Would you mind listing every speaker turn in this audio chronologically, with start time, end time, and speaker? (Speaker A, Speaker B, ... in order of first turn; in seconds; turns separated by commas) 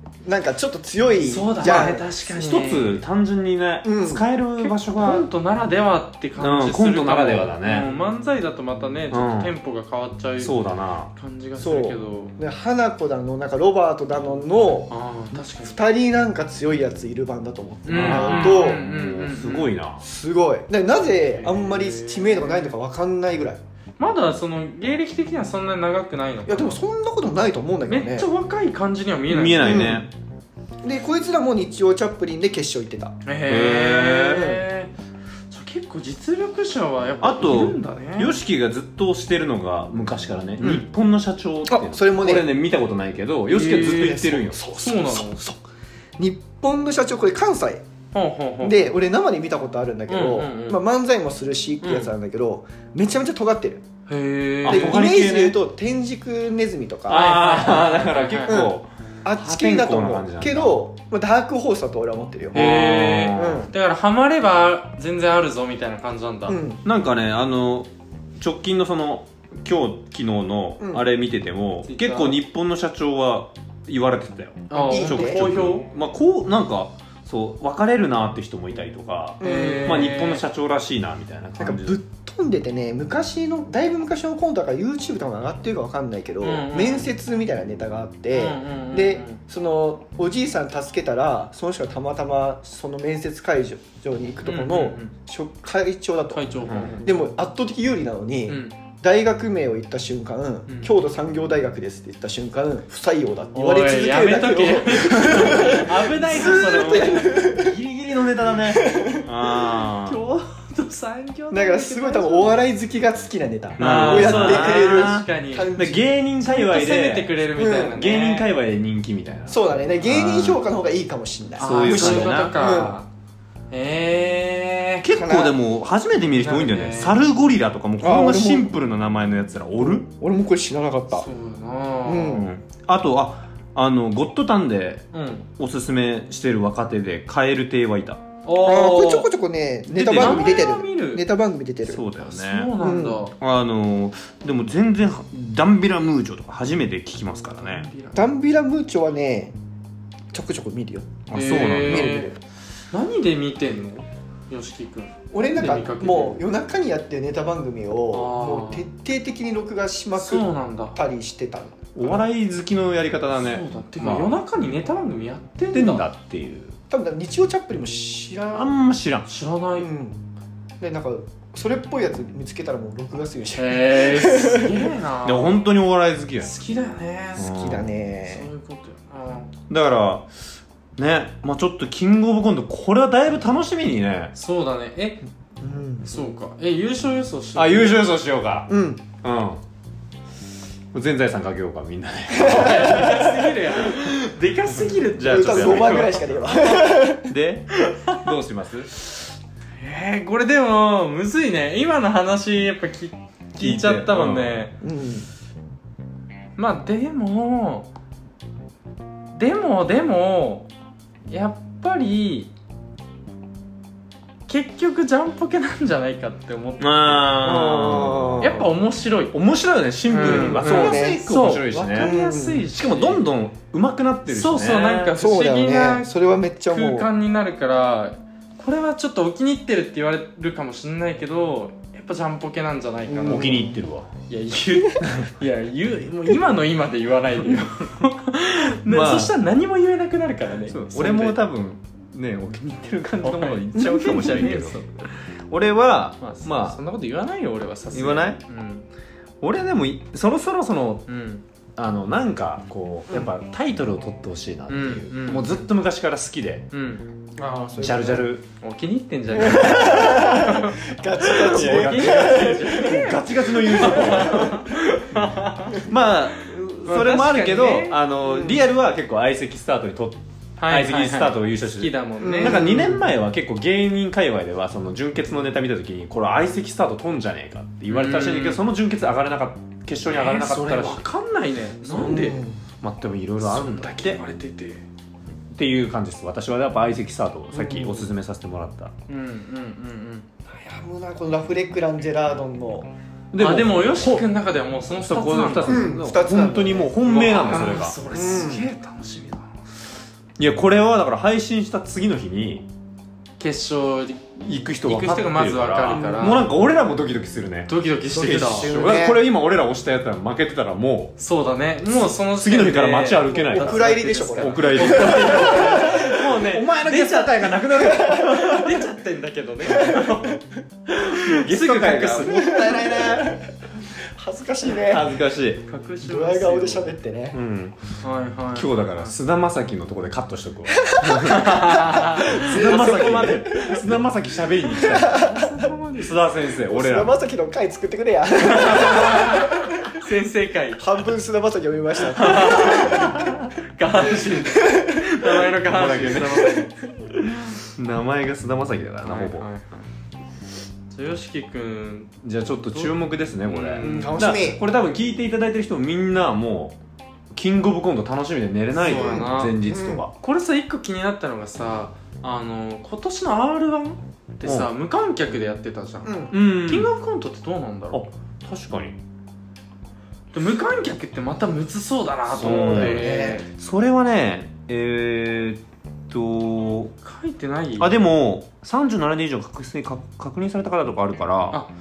Speaker A: 0.2-2.0, Speaker B: 1.2-3.0, Speaker C: 1.6-5.3, Speaker A: 3.8-4.2, Speaker B: 4.6-10.5, Speaker C: 6.4-7.9, Speaker C: 9.1-9.5, Speaker C: 10.4-11.1, Speaker B: 11.1-12.3, Speaker A: 11.6-18.8, Speaker B: 14.9-15.8, Speaker B: 17.9-19.8, Speaker C: 17.9-20.0, Speaker A: 20.0-23.6, Speaker B: 21.3-22.7, Speaker B: 24.0-26.8, Speaker A: 26.5-28.3, Speaker B: 27.9-29.9, Speaker C: 29.3-30.1, Speaker A: 29.6-30.1, Speaker A: 30.8-33.2, Speaker B: 33.2-34.9, Speaker C: 33.5-34.5, Speaker B: 35.5-38.3, Speaker C: 37.2-44.6, Speaker A: 40.6-40.9, Speaker A: 41.7-42.5, Speaker B: 43.5-45.4, Speaker A: 43.8-45.6, Speaker A: 46.2-47.8, Speaker B: 48.1-48.9, Speaker A: 48.6-53.8, Speaker B: 50.1-50.8, Speaker B: 51.8-52.1, Speaker B: 54.1-55.0, Speaker C: 54.6-55.6, Speaker A: 54.6-57.3, Speaker C: 57.1-60.8, Speaker B: 57.1-58.7, Speaker A: 58.5-62.6, Speaker C: 62.5-63.7, Speaker B: 62.5-66.6, Speaker A: 63.3-63.7, Speaker A: 66.5-66.8, Speaker C: 66.8-82.0, Speaker A: 70.8-71.0, Speaker B: 71.8-72.4, Speaker B: 74.7-75.9, Speaker A: 74.8-75.5, Speaker B: 79.4-80.4, Speaker A: 79.4-80.0, Speaker A: 81.6-96.5, Speaker B: 86.4-87.1, Speaker B: 88.3-89.4, Speaker B: 94.5-95.1, Speaker B: 96.3-97.1, Speaker C: 96.7-97.0, Speaker A: 97.0-107.8, Speaker B: 98.5-98.7, Speaker B: 103.5-107.4, Speaker C: 105.2-110.2, Speaker A: 108.7-109.2, Speaker B: 110.0-112.5, Speaker A: 111.5-116.1, Speaker B: 113.8-115.7, Speaker C: 113.8-120.6, Speaker B: 116.4-118.5, Speaker A: 117.5-118.0, Speaker A: 119.5-123.0, Speaker B: 121.6-123.1, Speaker C: 121.6-122.6, Speaker B: 123.7-125.0, Speaker C: 125.0-130.1, Speaker A: 125.1-125.5, Speaker B: 126.3-127.2, Speaker A: 128.0-128.7, Speaker A: 130.0-131.3, Speaker B: 131.1-132.4, Speaker A: 132.0-132.5, Speaker C: 132.3-135.1, Speaker B: 135.1-135.5, Speaker C: 135.6-138.2, Speaker B: 138.4-139.3, Speaker A: 138.5-142.0, Speaker C: 139.9-140.8, Speaker B: 140.1-141.2, Speaker C: 141.8-142.7, Speaker B: 142.2-143.3, Speaker A: 142.8-143.2, Speaker C: 143.4-147.9, Speaker B: 147.6-148.2, Speaker A: 148.1-149.5, Speaker A: 150.3-152.3, Speaker C: 151.3-152.3, Speaker B: 151.3-152.3, Speaker B: 152.9-156.4, Speaker A: 155.3-162.2, Speaker B: 158.1-158.8, Speaker B: 160.2-160.9, Speaker C: 161.9-164.3, Speaker B: 163.4-166.1, Speaker C: 165.7-166.8, Speaker A: 166.9-168.8, Speaker C: 168.5-169.3, Speaker B: 169.3-169.9, Speaker A: 169.8-170.2, Speaker A: 170.8-174.8, Speaker B: 173.5-175.6, Speaker C: 175.2-176.5, Speaker B: 176.4-177.5, Speaker C: 177.4-177.9, Speaker A: 177.4-178.5, Speaker B: 178.3-179.5, Speaker C: 179.7-180.3, Speaker C: 181.0-184.3, Speaker B: 184.3-185.2, Speaker A: 185.6-186.1, Speaker B: 186.0-188.1, Speaker C: 187.5-189.6, Speaker A: 188.7-189.0, Speaker C: 190.9-193.2, Speaker A: 192.3-193.6, Speaker B: 192.3-196.2, Speaker C: 195.2-198.9, Speaker A: 195.2-197.3, Speaker B: 197.8-198.2, Speaker B: 199.8-204.7, Speaker C: 203.6-204.6, Speaker A: 204.8-205.3, Speaker B: 206.6-207.9, Speaker B: 209.3-210.7, Speaker B: 211.3-212.5, Speaker B: 214.5-219.3, Speaker C: 216.8-218.7, Speaker A: 217.4-218.6, Speaker C: 219.3-222.1, Speaker B: 220.1-223.2, Speaker A: 220.2-222.7, Speaker C: 222.7-225.1, Speaker B: 224.3-226.1, Speaker A: 225.1-227.1, Speaker B: 226.7-233.7, Speaker A: 233.1-233.6, Speaker C: 233.1-234.1, Speaker B: 234.3-241.4, Speaker C: 238.8-239.3, Speaker C: 240.7-244.8, Speaker B: 243.2-245.1, Speaker C: 245.5-246.8, Speaker B: 246.2-248.9, Speaker C: 247.9-248.4, Speaker C: 249.4-251.1, Speaker B: 251.1-251.4, Speaker C: 251.8-256.7, Speaker B: 254.7-255.7, Speaker B: 256.7-265.8, Speaker A: 257.7-258.2, Speaker C: 257.8-258.4, Speaker A: 259.3-264.7, Speaker C: 259.5-260.2, Speaker C: 261.3-264.8, Speaker C: 265.8-281.1, Speaker B: 266.8-268.0, Speaker A: 268.3-268.6, Speaker B: 270.6-272.8, Speaker A: 272.2-273.0, Speaker B: 277.9-278.6, Speaker B: 280.1-282.4, Speaker C: 281.9-284.2, Speaker A: 282.0-282.6, Speaker B: 283.4-284.8, Speaker C: 285.5-288.9, Speaker A: 287.5-288.1, Speaker B: 289.1-290.2, Speaker A: 290.5-292.9, Speaker C: 293.3-294.3, Speaker B: 293.4-295.9, Speaker C: 295.0-298.0, Speaker A: 295.6-297.0, Speaker B: 297.0-299.5, Speaker A: 298.1-298.7, Speaker C: 300.4-302.7, Speaker B: 303.4-304.2, Speaker C: 304.4-311.1, Speaker B: 304.8-306.5, Speaker A: 305.9-306.5, Speaker B: 307.7-308.8, Speaker A: 308.1-309.2, Speaker B: 311.2-322.8, Speaker C: 311.8-318.8, Speaker A: 313.4-316.1, Speaker A: 317.9-318.6, Speaker A: 319.6-320.4, Speaker C: 321.1-323.3, Speaker A: 322.2-325.1, Speaker C: 324.8-325.6, Speaker B: 325.6-326.9, Speaker A: 326.0-327.4, Speaker C: 327.3-327.8, Speaker B: 328.0-329.1, Speaker C: 328.5-335.3, Speaker A: 330.7-333.9, Speaker B: 331.2-333.8, Speaker B: 334.8-336.3, Speaker A: 334.8-335.6, Speaker C: 336.0-337.2, Speaker A: 336.6-339.9, Speaker B: 338.4-341.0, Speaker A: 340.8-343.2, Speaker B: 342.1-346.7, Speaker C: 342.2-343.5, Speaker A: 344.6-345.3, Speaker C: 345.7-346.6, Speaker C: 347.2-349.5, Speaker B: 349.0-349.8, Speaker B: 350.9-352.1, Speaker C: 352.2-356.8, Speaker B: 352.7-354.2, Speaker A: 353.8-354.6, Speaker C: 357.3-360.1, Speaker B: 358.8-368.0, Speaker A: 358.9-360.0, Speaker C: 364.4-364.7, Speaker A: 366.0-366.3, Speaker C: 366.3-366.9, Speaker C: 367.9-369.0, Speaker B: 370.3-373.5, Speaker C: 372.3-376.9, Speaker A: 372.4-373.4, Speaker B: 377.0-377.9, Speaker C: 377.8-381.6